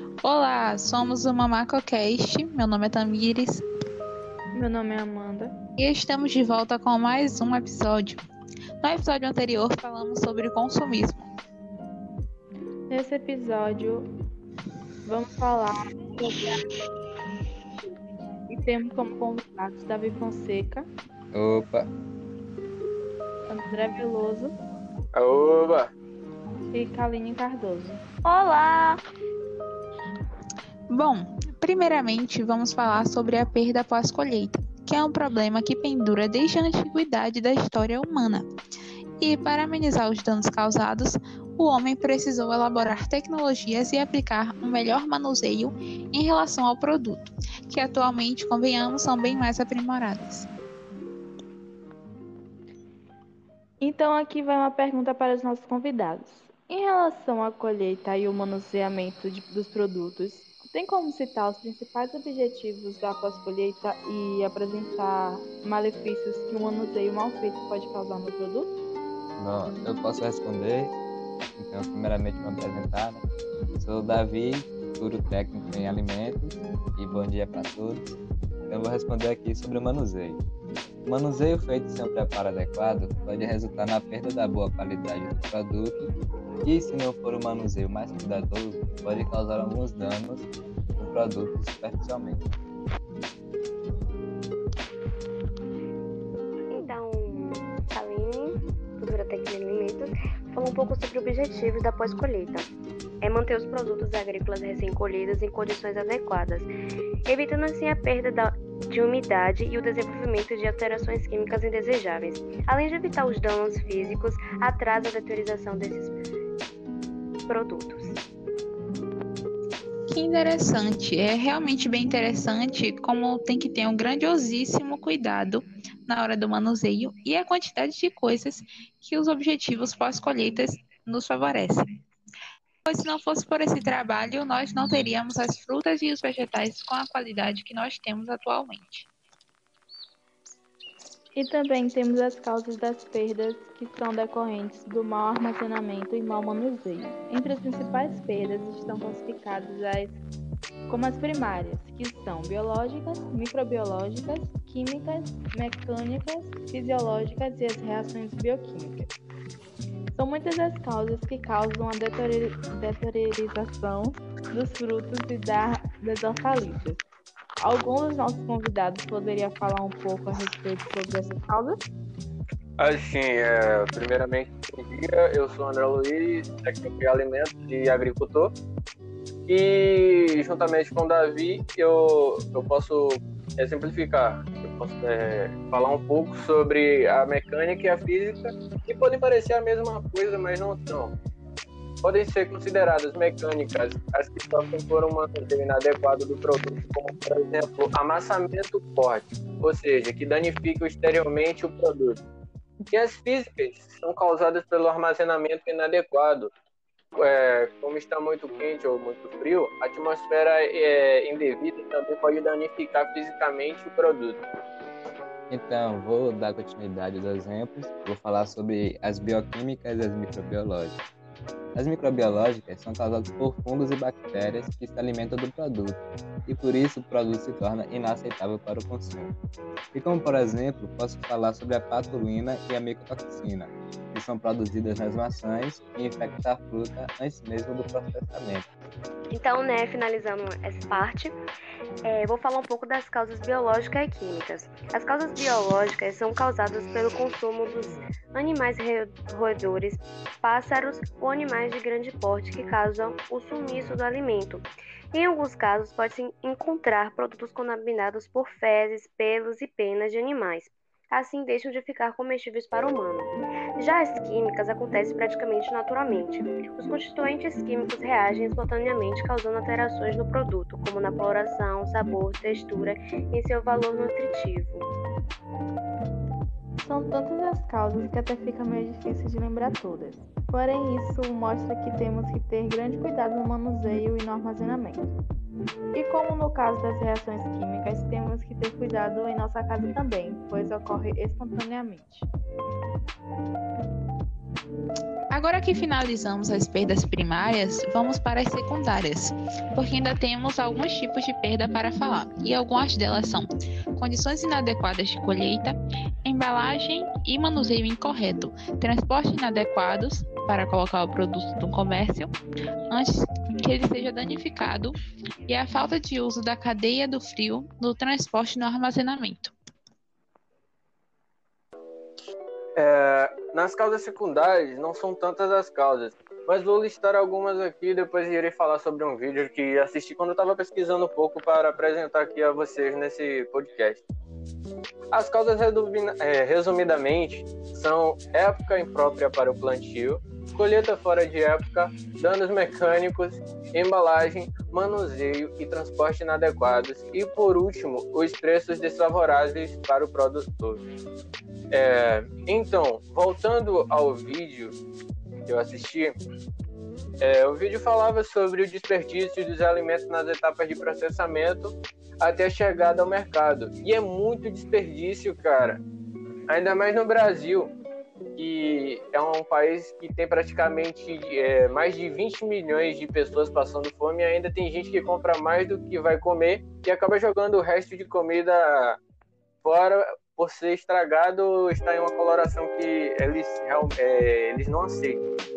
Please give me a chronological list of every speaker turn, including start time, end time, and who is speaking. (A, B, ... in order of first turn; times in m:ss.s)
0:00.2-0:03.6 A
0:04.5-0:05.5 B
0:05.8-0:08.2 A
0:08.8-0:11.3 A
0:12.9-0:14.1 B
0:15.0-0:16.6 B
0:18.5-0:20.9 B
0:21.3-0:21.9 C
0:23.5-0:24.5 B
0:25.1-0:25.9 D
0:26.7-0:28.0 B
0:30.9-0:38.4 A
0:39.2-0:50.5 A
0:53.8-1:08.7 B
1:09.4-1:10.9 C
1:11.6-1:13.2 C
1:13.8-1:18.2 C
1:18.7-1:20.4 C
1:21.0-1:26.1 C
1:26.6-1:32.4 C
1:36.7-1:42.7 E
1:43.2-1:46.7 E
1:47.2-1:56.2 E
1:57.5-1:58.2 E
2:00.1-2:11.8 A
2:12.8-2:19.1 A
2:21.3-2:30.2 B
2:30.9-2:39.1 B
2:40.1-2:47.1 B
2:47.6-2:51.8 B
2:52.8-2:58.5 D
2:59.5-3:11.1 D
3:12.0-3:22.2 D
3:22.9-3:26.5 D
3:27.2-3:34.4 D
3:35.5-3:41.0 C
3:41.7-3:49.3 C
3:49.9-3:58.7 C
3:59.3-4:01.4 E
4:02.0-4:34.9 E
4:36.8-4:45.2 B
4:45.9-4:52.3 B
4:55.3-5:12.3 A
5:12.9-5:14.9 A
5:15.5-5:19.5 A
5:22.8-5:34.0 D
5:35.1-5:50.8 D
5:51.7-5:54.8 D
5:55.4-5:56.2 D
5:57.2-6:05.8 D
6:06.5-6:07.7 D
6:08.4-6:19.0 D
6:19.6-6:25.2 D